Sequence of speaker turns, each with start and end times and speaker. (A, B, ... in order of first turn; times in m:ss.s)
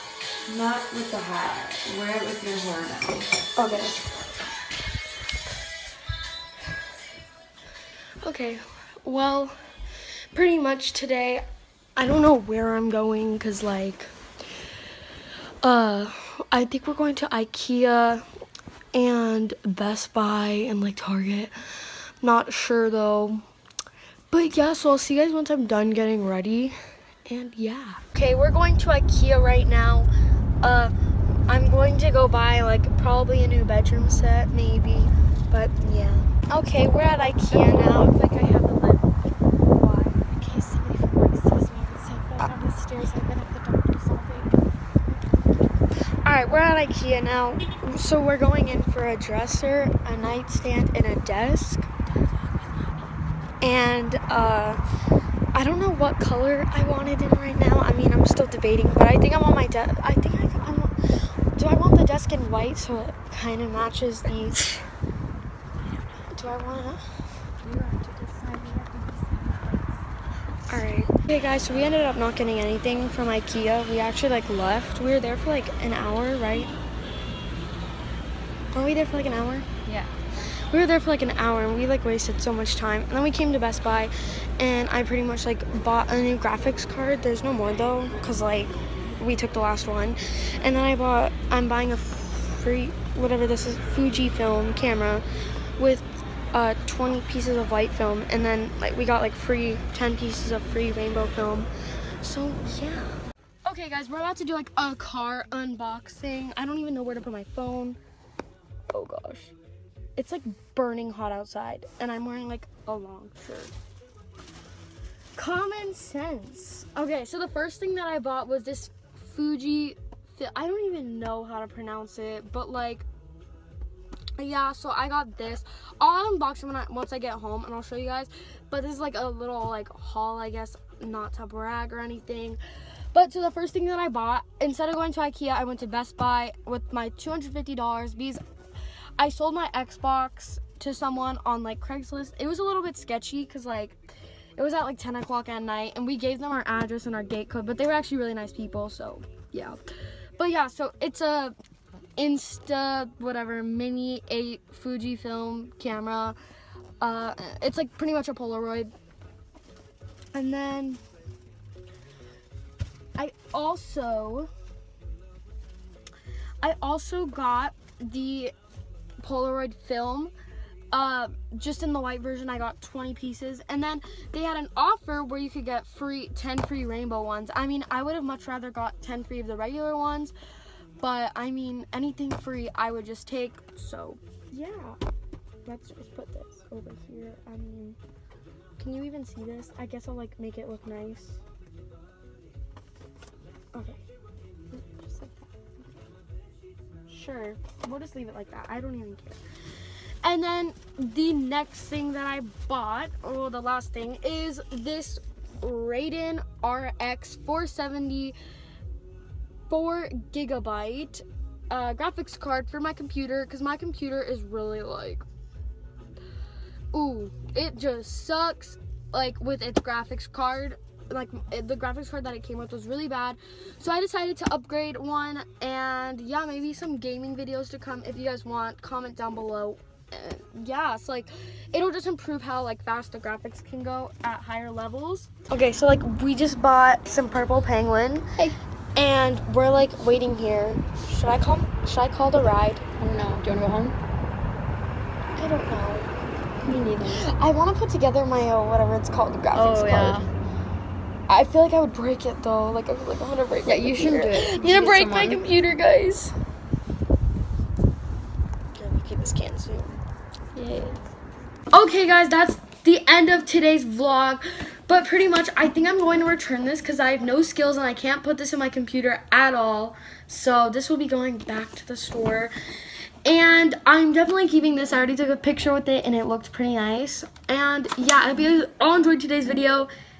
0:00.4-0:03.4 A
0:03.6-0:04.0 B
0:08.2-0:09.6 B
0:10.3-0:14.1 B
0:15.6-0:18.2 B
0:18.9-0:21.5 B
0:22.2-0:23.4 B
0:24.3-0:30.1 B
0:30.6-0:30.9 B
0:31.5-0:38.2 B
0:37.0-0:39.1 A
0:40.2-0:44.5 A
0:46.2-0:52.0 B
0:53.6-0:54.8 B
0:55.5-1:04.8 B
1:06.3-1:07.0 B
1:07.6-1:10.0 A
1:10.7-1:16.7 B
1:18.7-1:19.7 B
1:19.9-1:20.2 A
1:20.7-1:35.2 B
1:35.8-1:41.7 B
1:42.2-1:48.0 B
1:48.9-1:49.5 B
1:50.2-1:53.7 B
1:55.4-2:03.1 B
2:04.4-2:12.6 B
2:13.1-2:18.4 B
2:19.2-2:24.0 B
2:24.6-2:29.8 B
2:30.4-2:31.5 B
2:32.2-2:36.4 B
2:37.0-2:38.9 B
2:40.3-2:41.0 B
2:43.2-2:44.5 B
2:46.6-2:48.5 B
2:49.2-2:50.3 B
2:50.9-3:00.3 B
3:01.0-3:05.0 B
3:05.6-3:08.0 B
3:08.8-3:11.4 B
3:13.7-3:14.0 B
3:14.7-3:15.9 B
3:17.1-3:19.4 B
3:20.2-3:28.4 B
3:29.7-3:35.2 B
3:36.9-3:58.3 B
3:59.0-4:02.8 B
4:03.0-4:04.0 A
4:05.4-4:06.1 B
4:06.6-4:07.2 A
4:06.7-4:10.2 B
4:09.5-4:10.3 A
4:11.3-4:16.3 B
4:13.6-4:15.4 A
4:18.7-4:19.9 B
4:20.6-4:20.9 A
4:21.7-4:32.5 B
4:33.2-4:39.9 B